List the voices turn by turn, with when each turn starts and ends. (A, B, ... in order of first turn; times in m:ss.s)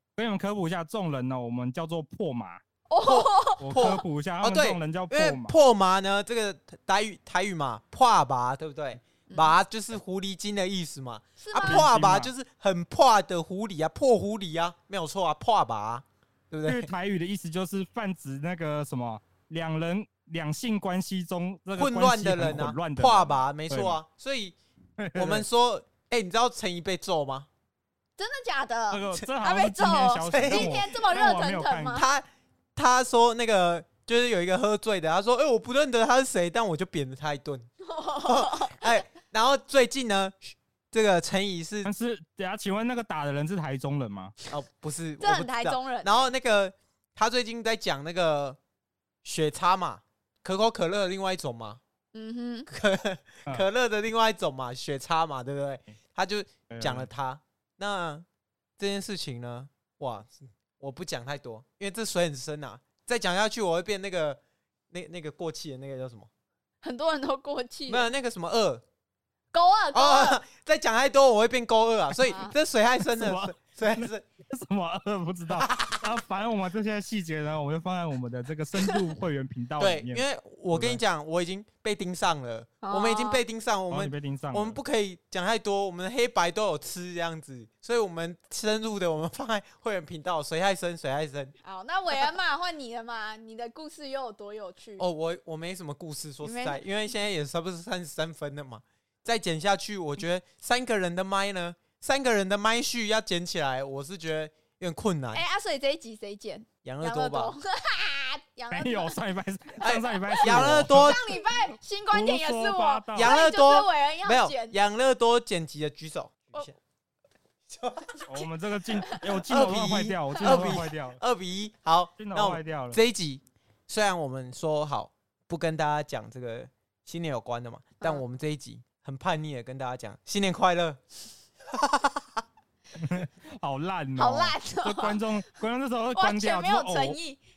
0:00.2-0:02.6 A
0:02.9-0:04.0 B
0:03.0-0:16.9 C
0:03.6-0:05.6 A
0:09.3-0:09.6 B
0:11.4-0:11.9 B
0:11.6-0:12.3 A
0:16.7-0:24.0 A
0:21.8-0:24.6 C
0:25.0-0:25.5 A
0:25.2-0:27.5 C
0:28.2-0:32.1 B
0:28.9-0:32.0 A
0:30.3-0:30.8 C
0:31.9-0:32.2 C
0:32.8-0:37.7 C
0:37.8-0:38.9 B
0:38.2-0:41.9 C
0:41.8-0:44.3 A
0:44.5-0:48.6 C
0:45.2-0:46.2 B
0:49.2-0:51.8 C
0:52.1-0:52.7 B
0:52.7-0:58.3 C
0:56.7-0:57.1 A
0:58.8-1:04.4 C
1:04.9-1:06.3 C
1:06.8-1:08.1 B
1:07.9-1:08.8 C
1:09.5-1:10.4 B
1:09.9-1:14.2 C
1:12.2-1:12.5 B
1:13.1-1:21.0 A
1:15.6-1:16.0 C
1:19.8-1:31.5 C
1:22.8-1:23.4 B
1:23.9-1:24.8 A
1:31.6-1:35.0 B
1:35.0-1:45.4 C
1:36.4-1:36.8 B
1:45.3-1:49.2 B
1:46.8-1:47.5 C
1:48.7-1:51.4 A
1:49.8-1:51.2 C
1:50.4-1:54.8 B
1:52.1-1:53.3 A
1:53.2-1:56.8 C
1:57.7-1:58.3 C
1:58.3-2:01.2 A
1:59.5-2:11.0 C
2:02.2-2:03.0 A
2:11.7-2:12.3 C
2:13.0-2:17.2 A
2:14.2-2:15.2 B
2:16.2-2:17.4 B